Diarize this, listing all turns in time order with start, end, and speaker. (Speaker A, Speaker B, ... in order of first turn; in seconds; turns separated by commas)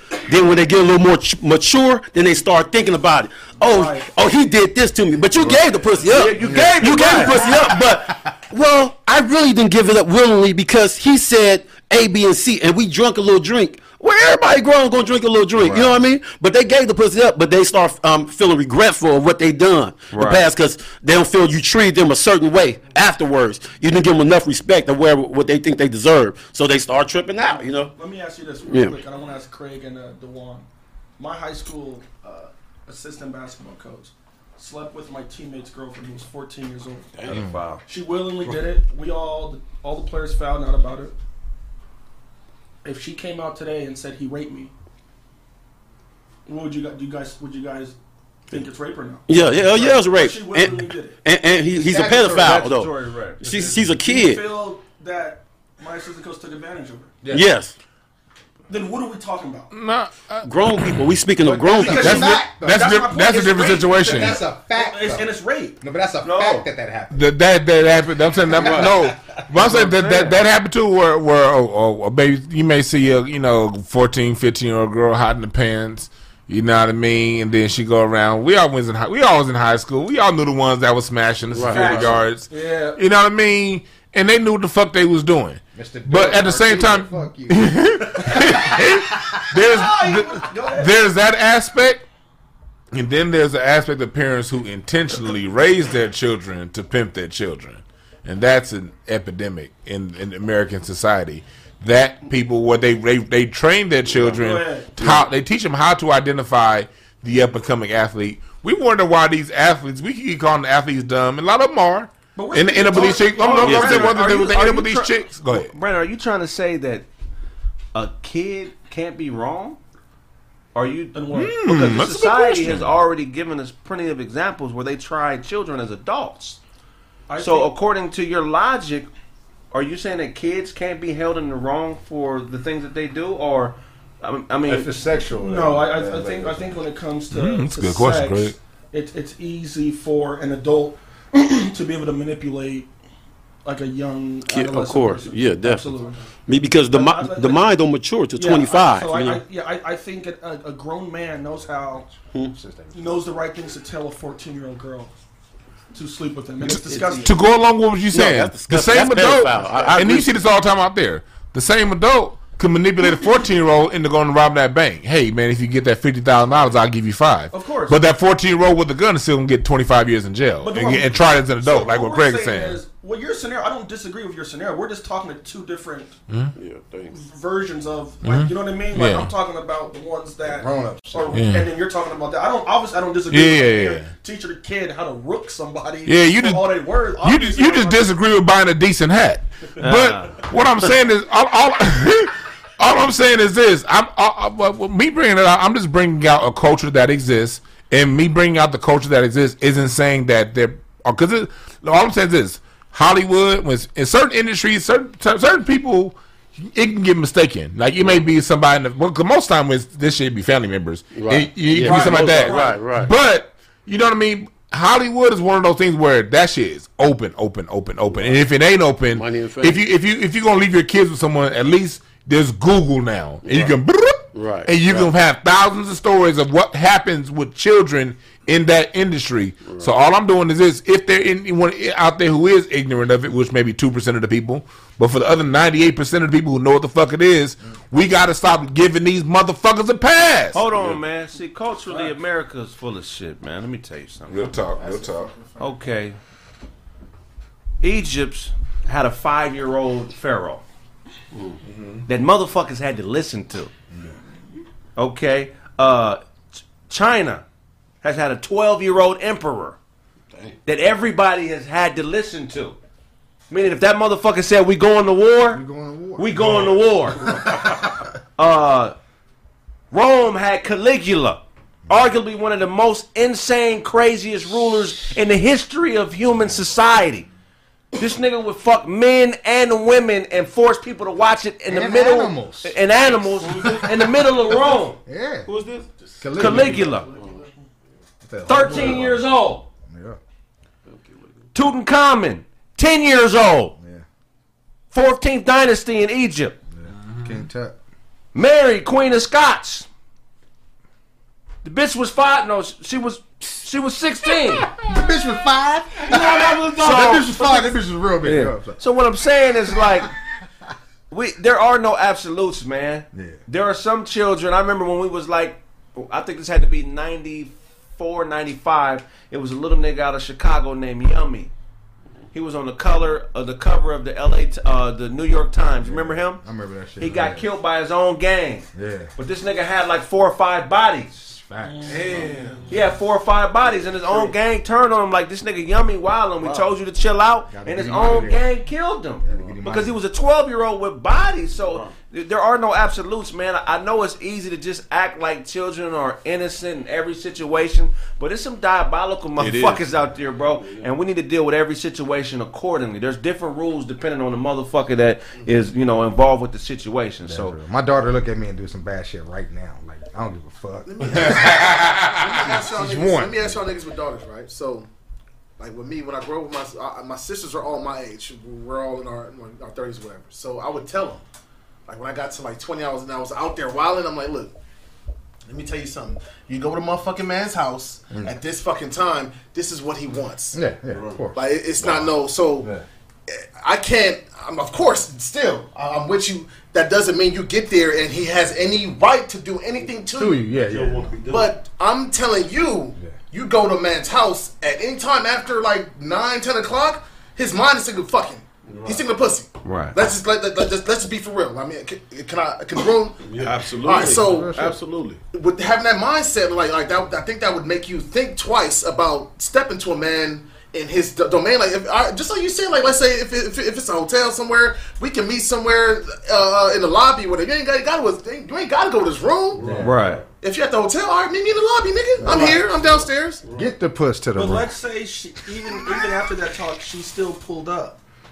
Speaker A: 0.3-27.9, Speaker B: 3.6-4.1, Speaker C: 5.9-7.5, Speaker D: 6.4-7.9, Speaker C: 15.6-15.9, Speaker C: 20.1-20.4, Speaker B: 27.6-30.6, Speaker A: 28.6-29.0, Speaker B: 31.2-37.1, Speaker A: 37.2-37.5, Speaker C: 37.2-37.8, Speaker D: 37.3-37.6, Speaker B: 37.9-41.1, Speaker B: 42.8-44.7, Speaker B: 46.5-48.0, Speaker B: 48.5-51.2, Speaker A: 49.3-54.4, Speaker D: 51.8-52.8, Speaker C: 52.2-53.4, Speaker B: 53.8-57.1, Speaker A: 57.3-57.7, Speaker B: 58.7-59.7, Speaker E: 59.7-61.0, Speaker A: 60.4-62.3, Speaker D: 61.4-63.0, Speaker B: 61.6-65.8, Speaker E: 61.9-64.3, Speaker D: 63.9-67.3, Speaker C: 66.2-66.6, Speaker E: 67.1-92.0, Speaker D: 68.4-70.3, Speaker A: 68.6-68.9, Speaker A: 81.5-82.1, Speaker B: 81.7-83.0, Speaker D: 85.7-89.6, Speaker B: 89.6-91.0, Speaker E: 92.9-115.7, Speaker B: 104.2-105.1, Speaker B: 112.3-114.5, Speaker C: 113.4-117.1, Speaker A: 113.6-114.1, Speaker C: 117.9-119.8, Speaker C: 120.7-126.6, Speaker B: 121.1-122.2, Speaker E: 121.3-122.9, Speaker B: 127.3-127.7, Speaker C: 127.4-129.1, Speaker C: 129.7-134.9, Speaker D: 134.7-136.8, Speaker B: 135.4-142.9, Speaker E: 137.3-138.6, Speaker B: 143.6-146.2, Speaker A: 144.4-145.9, Speaker A: 146.4-149.4, Speaker B: 146.8-147.7, Speaker B: 148.3-152.0, Speaker D: 151.6-153.3, Speaker B: 152.9-155.1, Speaker B: 155.9-157.4, Speaker E: 156.7-172.8, Speaker A: 158.1-160.4, Speaker B: 167.5-168.0, Speaker B: 170.6-176.1, Speaker E: 176.3-176.5, Speaker A: 176.6-177.2, Speaker B: 177.1-188.1, Speaker E: 178.2-179.3, Speaker D: 180.5-181.4, Speaker E: 181.3-181.7, Speaker E: 183.3-184.1, Speaker E: 186.0-240.9, Speaker C: 189.8-190.3, Speaker A: 211.1-213.1, Speaker B: 211.7-213.0, Speaker A: 218.1-218.4, Speaker A: 219.1-219.8, Speaker A: 223.4-223.7, Speaker A: 224.3-225.1, Speaker C: 240.5-244.5, Speaker E: 244.3-245.3, Speaker F: 244.7-245.7, Speaker C: 245.6-246.2, Speaker C: 247.8-250.6, Speaker E: 251.7-252.0, Speaker C: 252.1-253.7, Speaker C: 254.9-257.4, Speaker C: 258.0-259.8, Speaker C: 260.6-262.8, Speaker C: 263.5-265.6, Speaker D: 265.5-267.6, Speaker C: 266.2-267.3, Speaker C: 268.4-268.9, Speaker C: 269.9-277.3, Speaker C: 277.9-285.0, Speaker D: 281.7-282.7, Speaker A: 283.4-284.0, Speaker D: 285.1-285.5, Speaker A: 285.4-285.9, Speaker D: 286.2-287.0, Speaker C: 286.4-287.1, Speaker D: 288.2-289.2, Speaker C: 288.4-289.7, Speaker D: 289.9-290.2, Speaker A: 290.9-291.3, Speaker C: 291.5-293.8, Speaker C: 294.9-296.6, Speaker D: 296.8-297.8, Speaker E: 297.1-297.4, Speaker C: 298.3-299.9, Speaker C: 301.6-304.7, Speaker D: 304.8-308.8, Speaker A: 306.1-307.3, Speaker C: 306.6-307.2, Speaker C: 308.2-310.1, Speaker C: 311.1-321.5, Speaker C: 322.3-326.4, Speaker D: 325.8-327.4, Speaker C: 327.0-331.3, Speaker D: 328.7-329.1, Speaker D: 331.3-332.6, Speaker B: 331.6-332.1, Speaker G: 331.9-332.4, Speaker C: 332.7-357.6, Speaker D: 337.5-338.5, Speaker D: 339.2-339.9, Speaker G: 349.4-349.8, Speaker D: 357.2-361.3, Speaker F: 360.9-364.9, Speaker E: 361.1-362.5, Speaker D: 362.7-363.6, Speaker F: 365.6-371.2, Speaker F: 371.9-374.5, Speaker F: 375.5-380.6, Speaker D: 380.5-381.4, Speaker A: 380.9-381.2, Speaker F: 381.3-382.7, Speaker F: 383.3-390.4, Speaker D: 390.1-391.2, Speaker A: 390.7-391.5, Speaker F: 391.2-403.2, Speaker A: 398.7-399.0, Speaker C: 399.6-400.0, Speaker A: 403.2-404.2, Speaker G: 403.3-405.2, Speaker F: 403.8-404.5, Speaker D: 404.2-404.8, Speaker F: 405.3-419.8, Speaker D: 419.6-419.9, Speaker C: 419.8-420.2, Speaker F: 420.4-423.5, Speaker D: 422.2-422.6, Speaker D: 423.5-424.8, Speaker B: 424.3-428.0